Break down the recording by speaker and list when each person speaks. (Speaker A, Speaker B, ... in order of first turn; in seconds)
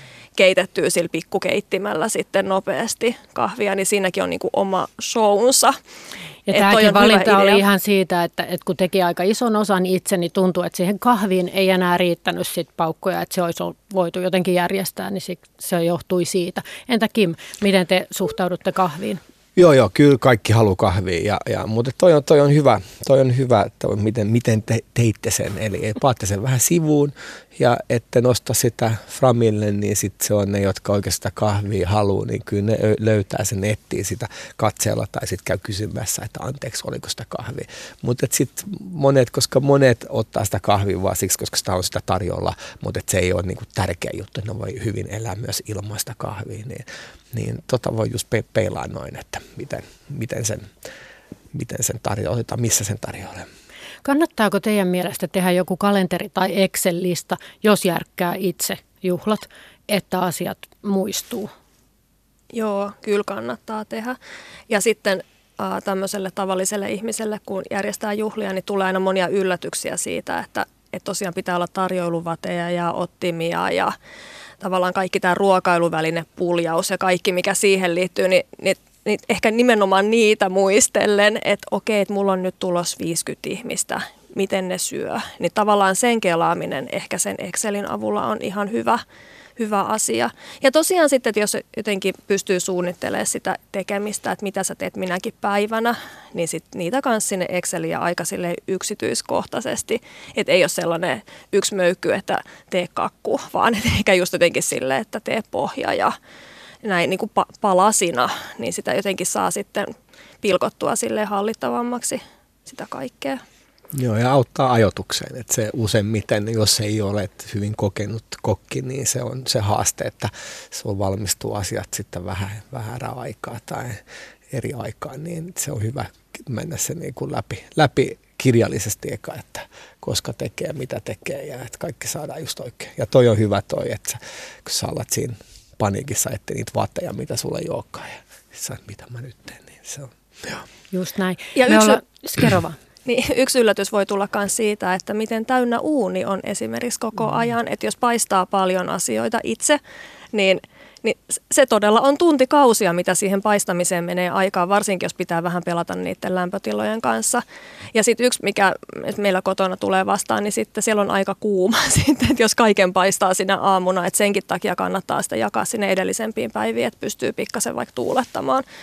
Speaker A: 0.4-5.8, 6.5-7.6, 62.5-64.2, 64.7-74.0, 74.6-89.0, 89.6-106.2, 106.8-113.4, 141.6-142.0, 143.1-149.8, 150.3-157.4, 157.9-168.7
Speaker B: 6.5-19.2, 54.0-61.5, 140.9-142.8
Speaker C: 19.6-50.7, 51.5-53.5, 113.9-140.6